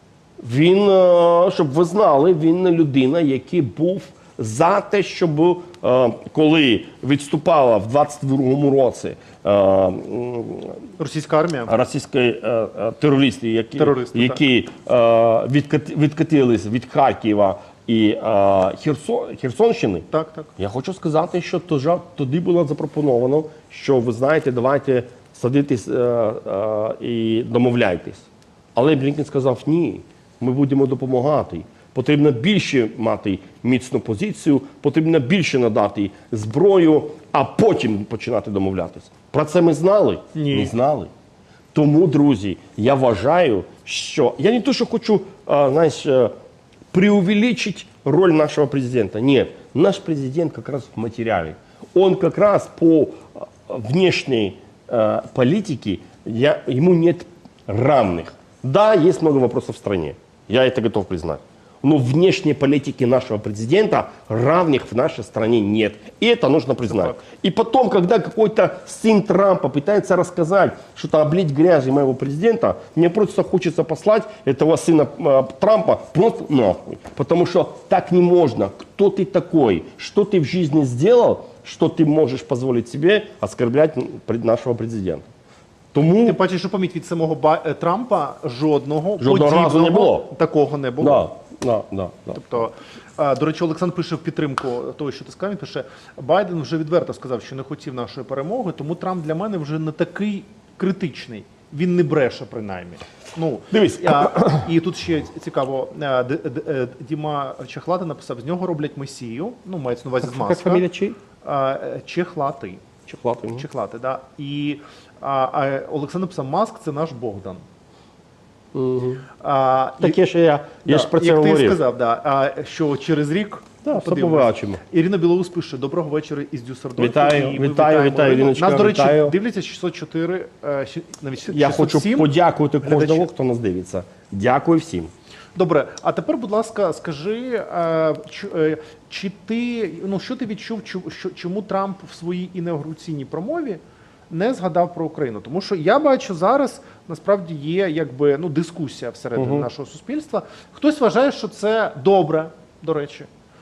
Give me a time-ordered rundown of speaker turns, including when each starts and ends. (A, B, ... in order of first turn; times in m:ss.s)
0:00.4-0:10.8 A
0:11.0-0:11.7 B
0:11.7-0:28.2 A
0:13.8-0:14.4 B
0:20.1-0:20.5 B
0:28.8-0:41.1 A
0:40.3-0:40.7 B
0:41.7-0:46.3 A
0:46.9-1:25.2 A
1:25.9-1:26.4 A
1:26.2-1:31.3 B
1:29.2-1:30.3 A
1:31.0-1:32.4 A
1:32.4-1:50.8 B
1:43.7-1:44.7 A
1:50.2-1:51.2 A
1:51.4-1:52.8 B
1:53.1-1:53.6 A
1:53.5-1:57.6 B
1:58.7-1:59.2 A
1:59.4-2:00.2 B
2:00.0-2:01.8 A
2:00.8-2:13.3 B
2:03.8-2:04.8 A
2:07.0-2:09.4 A
2:11.5-2:15.1 A
2:15.5-2:33.3 B
2:29.4-2:29.7 A